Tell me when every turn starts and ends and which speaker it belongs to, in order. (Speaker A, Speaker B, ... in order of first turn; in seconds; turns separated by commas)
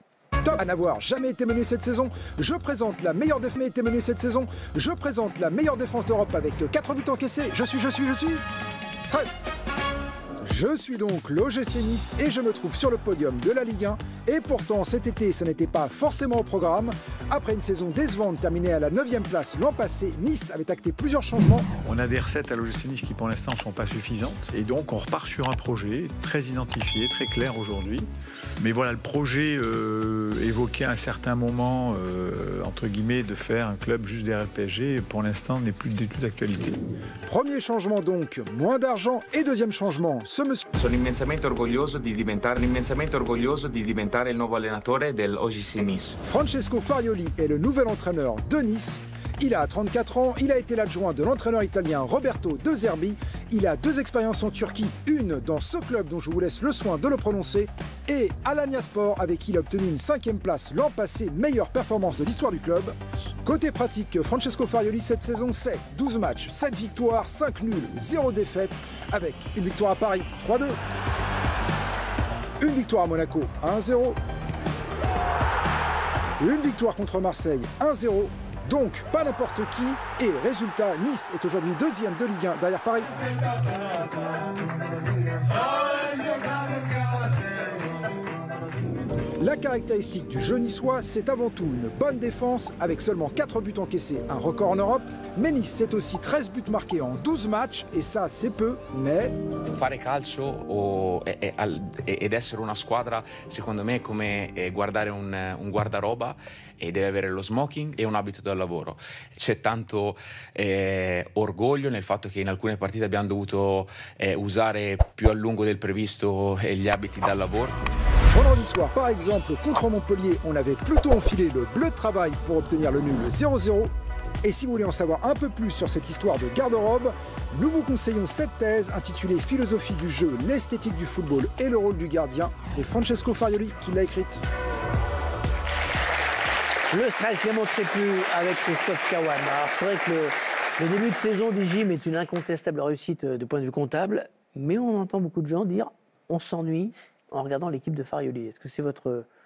Speaker A: 0.4-8.4, Speaker A: 10.4-21.7, Speaker B: 21.8-28.1, Speaker B: 28.6-36.8, Speaker A: 37.3-40.7, Speaker C: 40.8-46.1, Speaker A: 46.2-62.9, Speaker A: 63.5-70.8, Speaker A: 72.6-74.2, Speaker A: 76.4-83.1, Speaker A: 89.4-99.3, Speaker C: 99.7-117.7, Speaker A: 118.3-123.9, Speaker A: 124.4-134.4, Speaker D: 136.9-149.2